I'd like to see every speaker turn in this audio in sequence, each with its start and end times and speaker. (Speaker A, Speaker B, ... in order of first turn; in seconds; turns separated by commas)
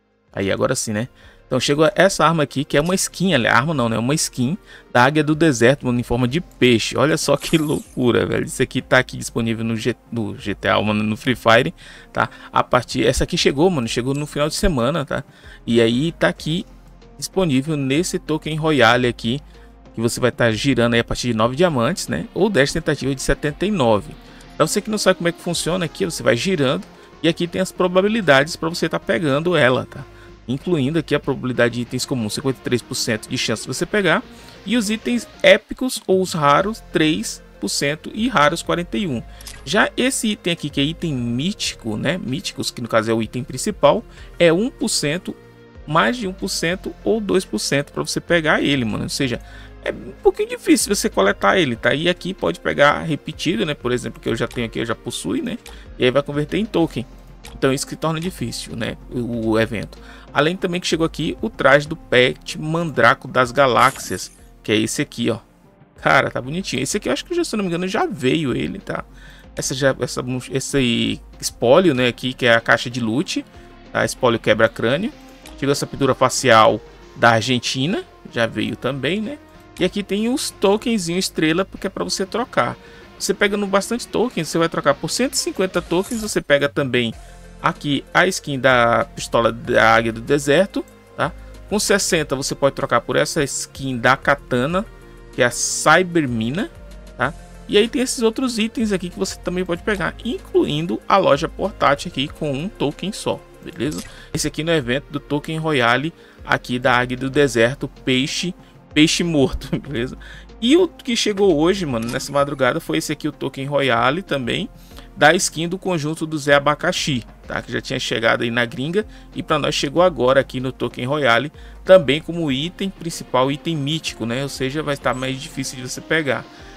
Speaker A: 0.3-16.7, Speaker A: 17.2-19.4, Speaker A: 19.9-65.4, Speaker A: 66.0-126.5